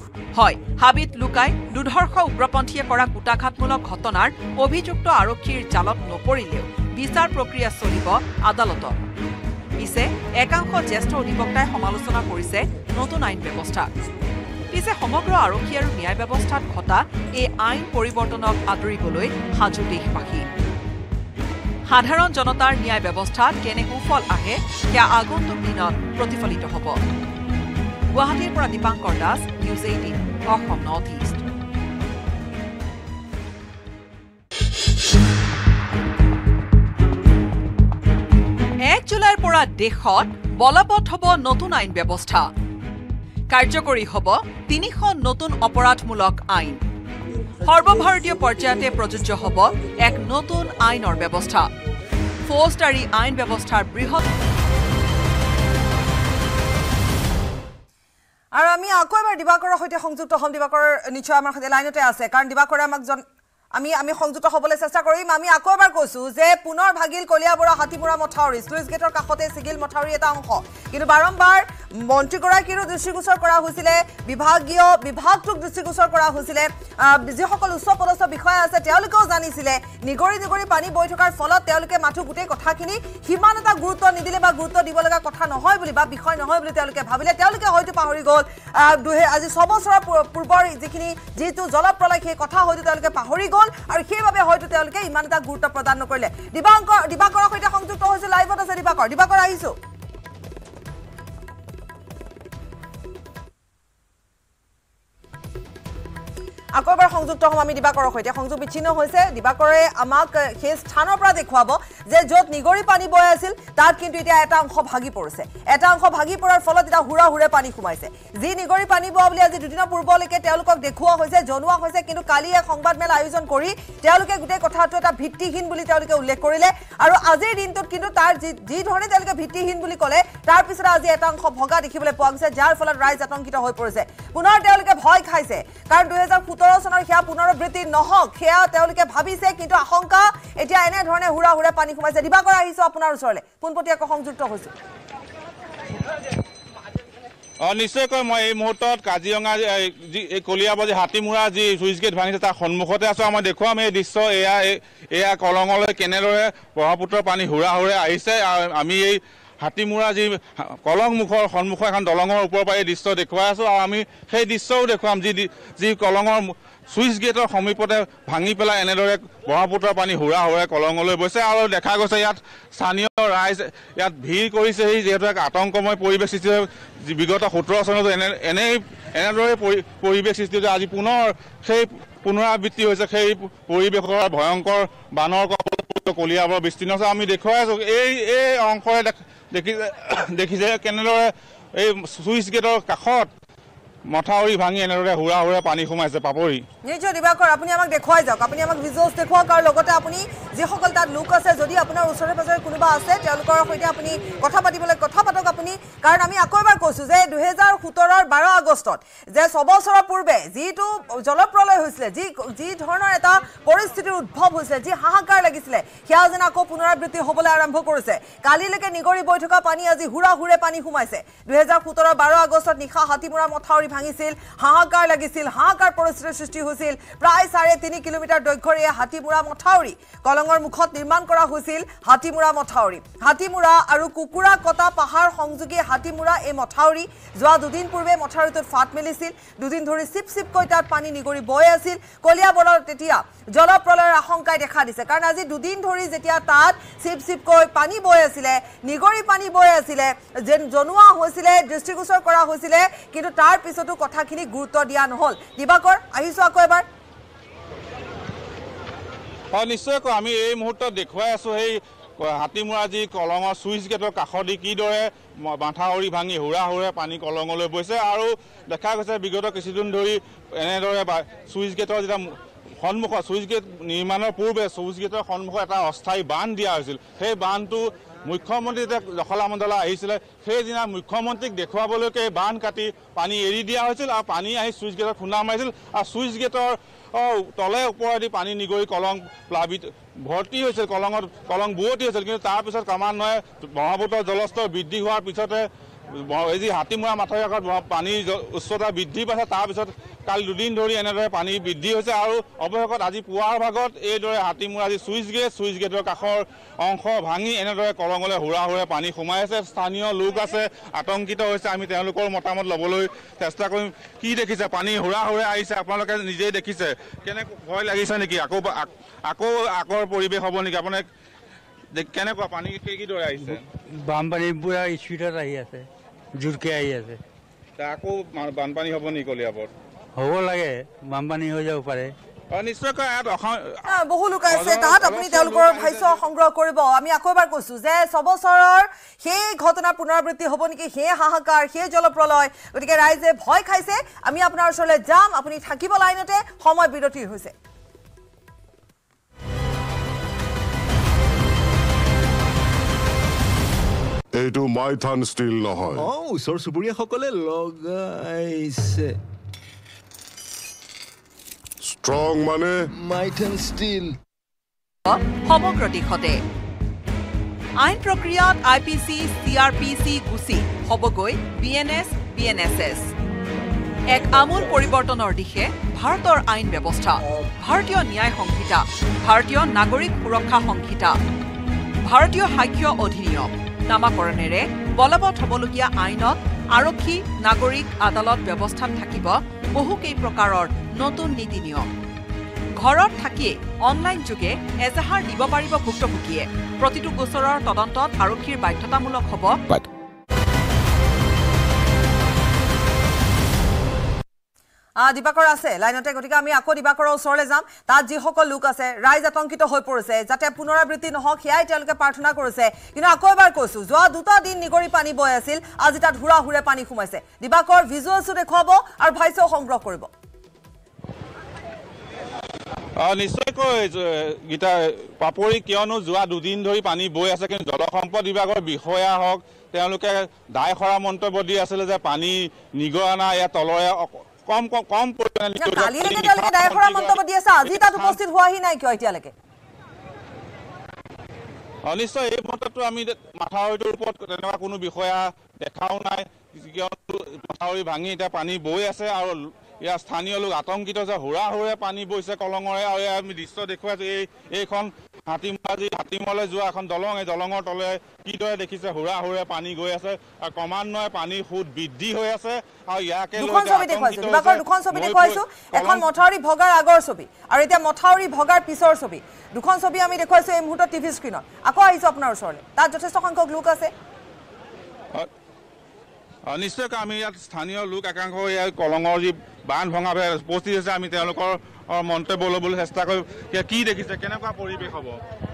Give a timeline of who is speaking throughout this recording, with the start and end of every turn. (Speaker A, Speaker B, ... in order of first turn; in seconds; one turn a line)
Speaker A: 0.3-9.0
Speaker A: 9.8-13.9
Speaker A: 14.7-20.5
Speaker A: 21.9-27.1
Speaker A: 28.1-31.4
Speaker A: 38.9-42.5
Speaker A: 43.5-46.8
Speaker A: 47.7-51.7
Speaker A: 52.5-54.3
Speaker B: 58.5-63.2
Speaker B: 63.8-99.8
Speaker B: 106.8-144.7
Speaker C: 147.6-193.3
Speaker C: 194.1-196.6
Speaker B: 196.8-256.9
Speaker C: 259.5-321.1
Speaker C: 321.9-323.6
Speaker D: 323.4-325.9
Speaker D: 326.4-327.2
Speaker C: 327.8-329.7
Speaker D: 330.2-332.1
Speaker C: 332.5-333.8
Speaker B: 333.9-347.5
Speaker C: 334.5-336.2
Speaker E: 354.3-356.1
Speaker F: 356.0-359.2
Speaker E: 361.8-362.9
Speaker F: 363.0-364.1
Speaker A: 365.1-366.4
Speaker A: 367.8-373.1
Speaker A: 374.1-381.2
Speaker A: 382.0-391.9
Speaker A: 392.8-399.6
Speaker B: 405.0-420.1
Speaker C: 423.0-438.2
Speaker B: 435.6-439.3
Speaker C: 441.9-466.1
Speaker B: 463.4-473.9
Speaker C: 476.5-485.2